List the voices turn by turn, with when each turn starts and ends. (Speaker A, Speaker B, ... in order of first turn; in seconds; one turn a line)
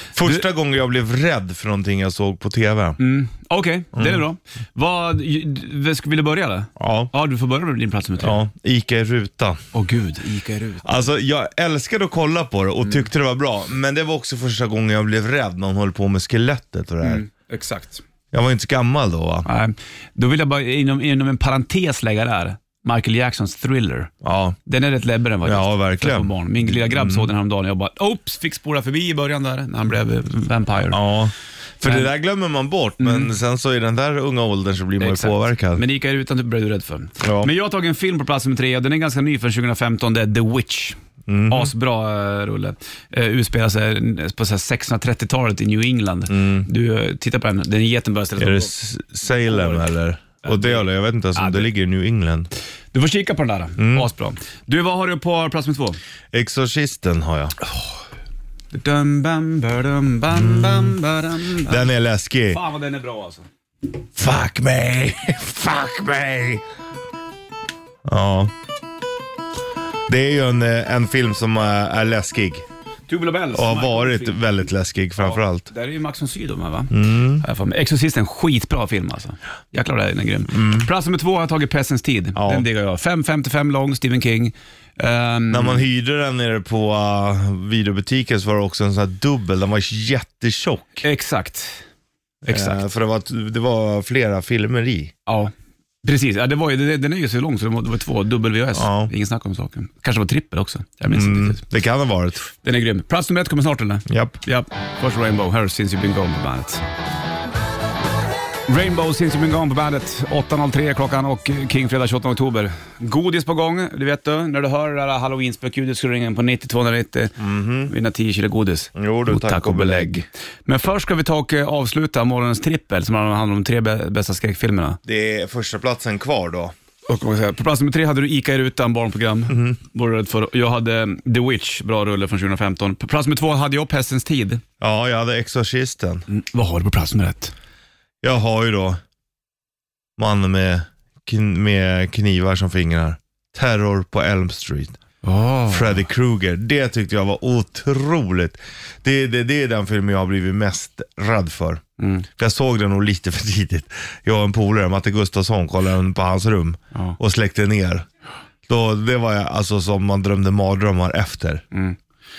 Speaker A: 0.1-3.0
Speaker B: 0.2-0.5
Speaker B: 3.0-8.4
Speaker A: 3.9-4.2
Speaker A: 6.8-7.1
Speaker A: 8.2-9.6
Speaker B: 9.7-11.1
Speaker A: 10.8-17.2
Speaker B: 17.0-18.0
Speaker A: 18.3-19.5
Speaker B: 19.4-24.1
Speaker A: 24.2-24.6
Speaker B: 24.6-31.0
Speaker A: 25.4-27.3
Speaker A: 30.9-35.8
Speaker B: 31.8-32.1
Speaker B: 33.0-33.3
Speaker B: 35.0-41.0
Speaker A: 37.2-37.5
Speaker A: 41.3-41.7
Speaker B: 41.5-48.7
Speaker A: 46.3-46.7
Speaker A: 48.4-52.5
Speaker B: 49.5-49.8
Speaker B: 50.4-51.7
Speaker B: 52.9-56.0
Speaker A: 53.8-54.1
Speaker A: 56.3-57.5
Speaker B: 58.7-61.9
Speaker A: 60.3-60.9
Speaker A: 61.6-62.6
Speaker B: 62.5-63.5
Speaker A: 64.2-66.6
Speaker A: 68.0-68.5
Speaker A: 70.1-72.6
Speaker B: 73.1-74.4
Speaker A: 73.5-75.7
Speaker B: 75.2-85.8
Speaker A: 76.9-77.4
Speaker A: 80.5-80.9
Speaker A: 82.3-82.7
Speaker A: 85.5-91.0
Speaker B: 91.0-91.8
Speaker B: 92.4-92.8
Speaker A: 92.5-95.1
Speaker B: 95.2-95.5
Speaker B: 96.0-101.6
Speaker A: 98.7-99.1
Speaker A: 101.1-102.5
Speaker B: 102.6-106.8
Speaker A: 104.1-104.4
Speaker B: 108.7-125.0
Speaker A: 117.4-117.9
Speaker A: 119.0-120.2
Speaker A: 125.0-126.7
Speaker B: 127.1-134.6
Speaker A: 129.5-129.8
Speaker A: 134.8-136.2
Speaker B: 136.3-137.5
Speaker A: 138.2-139.0
Speaker A: 140.2-145.0
Speaker B: 145.2-146.0
Speaker A: 145.7-158.1
Speaker B: 152.0-152.2
Speaker A: 158.7-161.6
Speaker B: 161.7-162.0